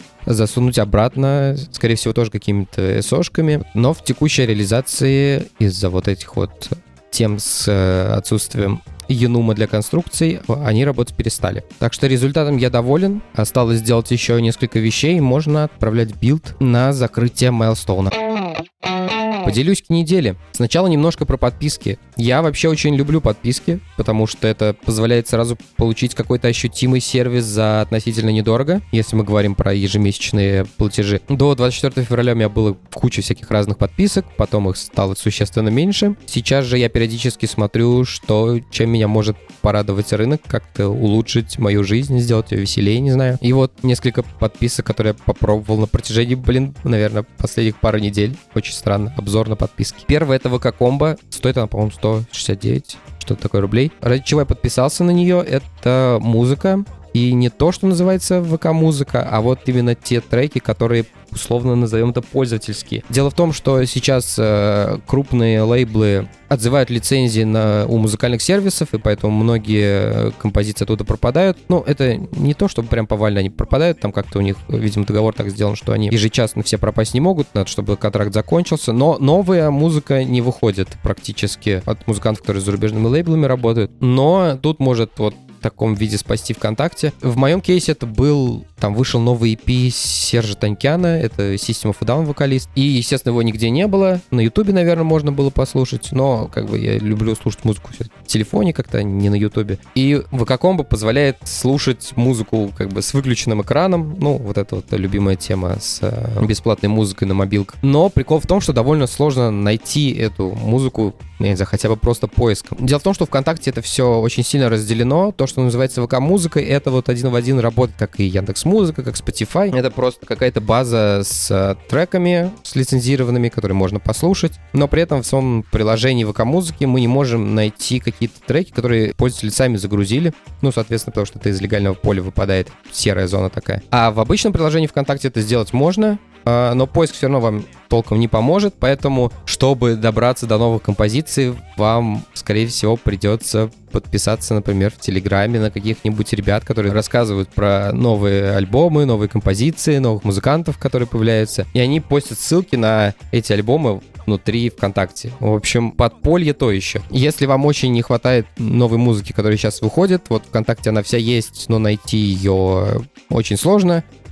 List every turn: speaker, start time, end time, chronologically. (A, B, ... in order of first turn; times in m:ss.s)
0:00.3-0:18.1 A
0:19.4-2:44.0 A